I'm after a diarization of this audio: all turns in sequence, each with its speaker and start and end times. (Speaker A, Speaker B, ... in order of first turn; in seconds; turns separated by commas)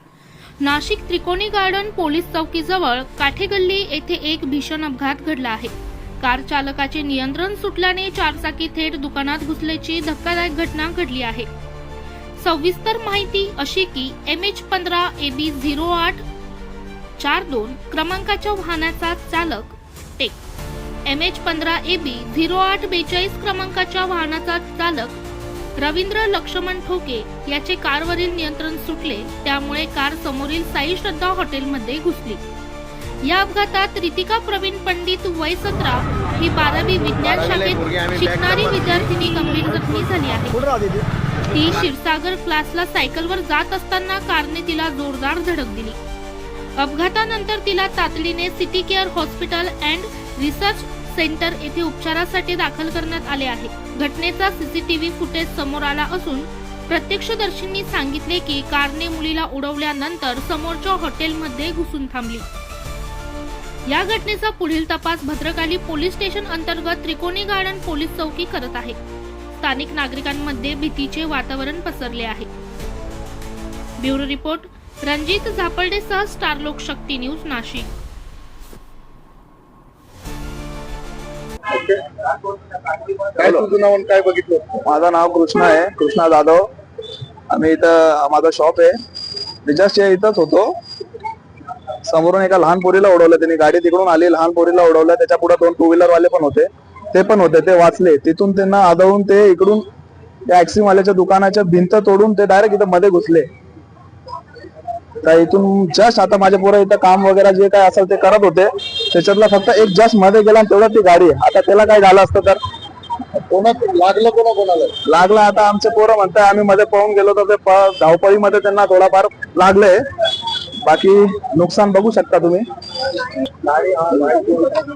Speaker A: 0.6-11.5, Speaker A: 12.4-16.2, Speaker A: 17.2-20.4, Speaker A: 21.0-25.2, Speaker A: 25.8-32.4, Speaker A: 33.2-40.7, Speaker A: 41.5-46.0, Speaker A: 46.8-62.5, Speaker A: 63.9-69.0, Speaker A: 69.5-72.5, Speaker A: 74.0-77.9, Speaker B: 81.7-82.0, Speaker B: 83.0-84.8, Speaker C: 83.4-83.7, Speaker C: 84.8-86.6, Speaker C: 87.5-88.9, Speaker C: 89.6-90.7, Speaker C: 92.0-99.8, Speaker C: 100.5-103.5, Speaker C: 105.2-112.6, Speaker B: 113.5-114.9, Speaker C: 115.0-120.0, Speaker C: 120.8-122.6, Speaker B: 123.6-124.7